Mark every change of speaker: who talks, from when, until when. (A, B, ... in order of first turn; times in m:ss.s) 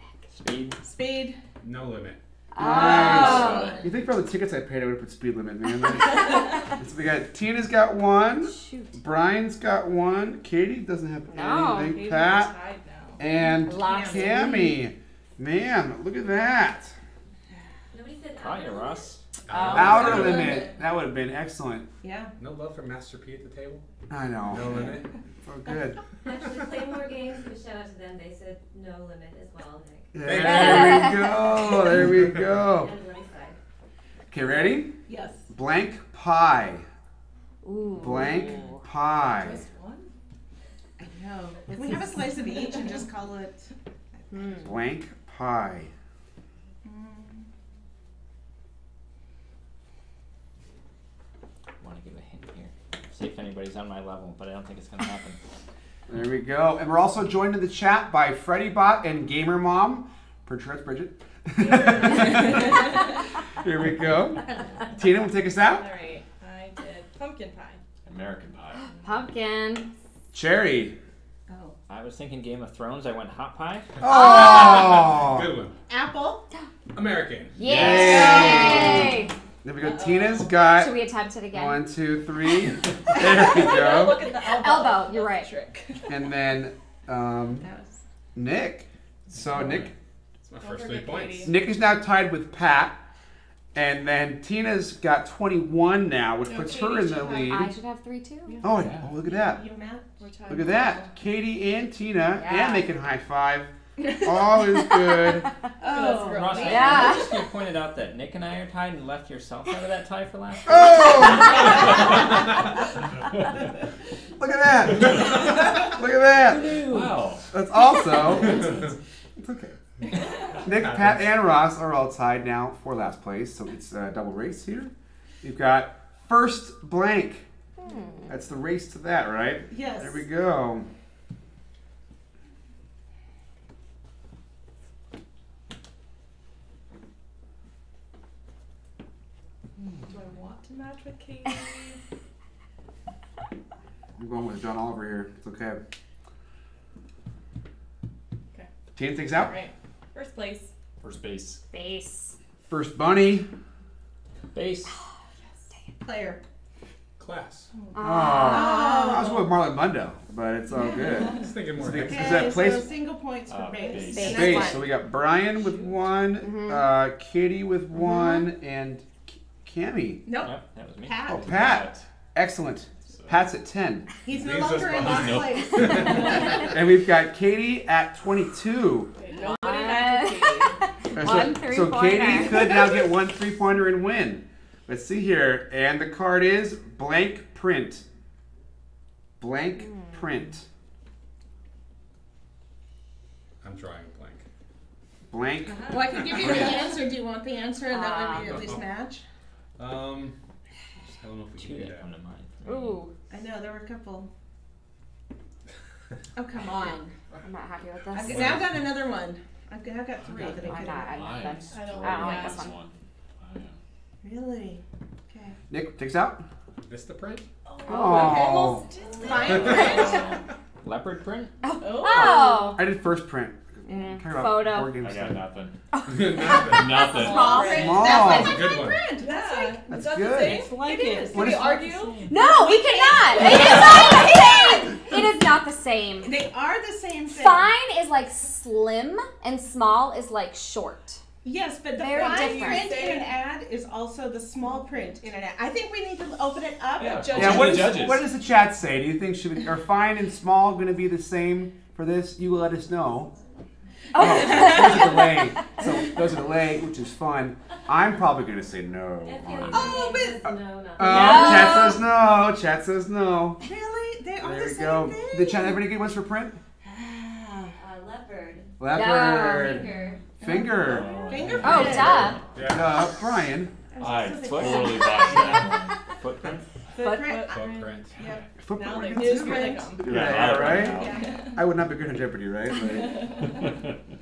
0:00.3-0:00.8 A
0:00.8-0:01.4 B
0:01.6-0:02.2 C
0:02.5-0:03.8 D
0:02.6-0:12.5 E
0:02.6-0:03.8 B
0:03.1-0:03.8 F
0:08.4-0:08.9 D
0:11.3-0:12.0 D
0:11.8-0:13.2 G
0:13.2-0:16.9 E
0:13.4-0:14.8 D
0:13.7-0:14.3 B
0:17.9-0:19.1 H
0:18.4-0:20.0 A
0:19.5-0:20.5 C
0:19.5-0:20.6 D
0:19.7-0:21.9 E
0:22.0-0:22.3 B
0:22.4-0:23.8 C
0:24.1-0:26.0 E
0:24.4-0:25.1 C
0:26.2-0:30.1 H
0:30.1-0:32.9 E
0:30.2-0:31.2 C
0:30.4-0:31.3 D
0:32.6-0:33.6 H
0:34.3-0:35.0 E
0:35.1-0:35.4 B
0:35.5-0:36.8 E
0:37.6-0:38.8 D
0:37.9-0:39.6 E
0:39.3-0:40.1 G
0:41.0-0:44.6 B
0:41.7-0:42.2 D
0:44.3-0:44.6 D
0:44.6-0:45.9 E
0:46.8-0:47.4 B
0:51.8-0:55.4 A
0:56.1-1:03.0 E
1:01.6-1:03.1 G
1:03.6-1:05.8 E
1:05.8-1:07.8 G
1:08.0-1:08.9 F
1:08.9-1:09.1 G
1:09.0-1:09.9 D
1:10.3-1:11.0 E
1:11.5-1:11.7 B
1:11.9-1:14.0 A
1:14.0-1:15.8 C
1:14.0-1:15.5 E
1:14.1-1:14.9 D
1:15.9-1:16.5 B
1:16.9-1:17.6 C
1:17.6-1:19.3 D
1:17.6-1:19.1 E
1:17.6-1:18.5 F
1:19.6-1:21.0 E
1:19.8-1:20.7 G
1:20.6-1:21.9 D
1:21.5-1:24.2 E
1:23.2-1:26.4 G
1:24.3-1:25.5 D
1:26.1-1:27.7 E
1:27.6-1:28.0 B
1:28.3-1:29.9 E
1:29.3-1:29.9 F
1:30.4-1:31.6 C
1:30.6-1:31.5 G
1:31.4-1:33.0 E
1:33.7-1:37.7 E
1:36.4-1:37.3 G
1:36.5-1:37.5 B
1:37.3-1:38.7 D
1:38.6-1:39.6 E
1:38.7-1:39.2 F
1:39.3-1:40.5 B
1:40.2-1:41.1 G
1:40.5-1:45.5 E
1:42.3-1:42.9 D
1:44.1-1:44.6 G
1:45.8-1:47.0 B
1:45.8-1:47.1 G
1:46.1-1:51.0 A
1:46.6-1:47.3 D
1:50.7-1:51.9 E
1:51.7-1:52.1 F
1:54.4-1:56.8 E
1:56.5-1:57.1 A
1:56.5-1:57.5 F
1:57.5-1:58.8 E
1:59.4-1:59.8 E
2:00.6-2:01.4 C
2:00.6-2:07.5 E
2:07.8-2:08.4 D
2:08.3-2:10.9 E
2:09.7-2:10.2 B
2:19.8-2:20.2 F
2:20.1-2:22.0 G
2:24.2-2:25.8 E
2:28.5-2:30.7 G
2:28.9-2:29.6 E
2:31.0-2:31.6 F
2:31.7-2:32.3 D
2:32.7-2:33.5 E
2:34.5-2:34.9 A
2:36.0-2:36.4 B
2:37.2-2:37.7 C
2:37.9-2:39.5 D
2:38.0-2:42.9 E
2:38.4-2:39.4 B
2:40.8-2:41.3 B
2:41.1-2:42.5 C
2:41.9-2:44.8 B
2:43.5-2:44.9 F
2:43.9-2:44.9 D
2:44.2-2:50.3 E
2:45.6-2:45.9 G
2:46.4-2:46.9 D
2:48.0-2:48.5 D
2:50.2-2:51.7 B
2:50.4-2:51.6 A
2:51.3-2:54.1 E
2:51.3-2:52.0 F
2:53.1-2:53.4 F
2:54.2-2:56.7 B
2:54.3-2:56.7 C
2:55.0-2:56.1 F
2:56.6-2:59.1 E
2:59.2-3:00.8 G
2:59.3-3:03.1 D
3:01.1-3:08.0 E
3:09.4-3:10.6 E
3:09.8-3:10.3 D
3:13.6-3:14.4 C
3:15.3-3:16.2 E
3:15.6-3:16.1 G
3:15.8-3:19.2 B
3:16.2-3:16.7 C
3:17.8-3:18.7 D
3:18.4-3:18.9 C
3:19.8-3:20.4 C
3:21.1-3:22.1 C
3:21.6-3:23.0 A
3:22.6-3:23.1 D
3:23.3-3:24.3 B
3:26.4-3:27.1 B
3:27.4-3:28.6 D
3:28.1-3:31.2 B
3:30.2-3:33.8 F
3:30.4-3:32.8 D
3:31.7-3:32.7 G
3:34.2-3:35.6 B
3:35.7-3:36.4 E
3:36.9-3:37.4 C
3:37.6-3:40.3 G
3:37.9-3:38.9 E
3:37.9-3:38.3 D
3:38.0-3:40.3 B
3:38.9-3:39.4 H
3:39.3-3:40.4 F
3:39.5-3:40.2 C
3:39.8-3:40.1 D
3:40.8-3:41.6 A
3:41.6-3:42.9 D
3:41.8-3:42.7 G
3:42.1-3:45.4 E
3:43.8-3:45.0 D
3:44.9-3:45.8 F
3:45.9-3:48.4 D
3:46.1-3:47.0 C
3:46.7-3:47.7 F
3:47.0-3:48.0 G
3:47.0-3:49.8 B
3:47.7-3:48.6 E
3:48.4-3:49.1 C
3:49.2-3:52.4 G
3:49.9-3:50.7 E
3:50.4-3:55.2 B
3:50.5-3:56.4 D
3:51.3-3:51.9 E
3:56.2-3:57.7 B
3:57.3-4:01.2 D
4:01.4-4:07.8 B
4:01.9-4:03.2 D
4:02.0-4:03.4 G
4:07.0-4:08.3 F
4:07.0-4:08.2 G
4:07.3-4:13.3 E
4:14.1-4:15.5 D
4:14.2-4:23.6 E
4:19.2-4:21.8 H
4:19.7-4:20.5 B
4:21.0-4:22.0 D
4:23.6-4:25.8 B
4:24.4-4:26.6 E
4:26.8-4:27.7 B
4:27.8-4:28.8 H
4:28.8-4:31.2 E
4:28.8-4:29.8 D
4:29.4-4:30.2 H
4:30.4-4:32.4 B
4:30.8-4:32.6 F
4:31.5-4:32.4 D
4:32.5-4:33.0 C
4:32.6-4:33.7 E
4:33.9-4:35.7 B
4:34.0-4:36.0 F
4:34.4-4:35.0 A
4:36.2-4:36.6 A
4:37.0-4:37.5 D
4:37.0-4:37.6 B
4:37.0-4:38.0 G
4:37.5-4:38.2 C
4:38.2-4:41.3 B
4:38.2-4:38.4 F
4:38.6-4:43.4 E
4:38.7-4:41.6 G
4:40.0-4:41.3 F
4:42.8-4:43.6 G
4:43.4-4:43.9 F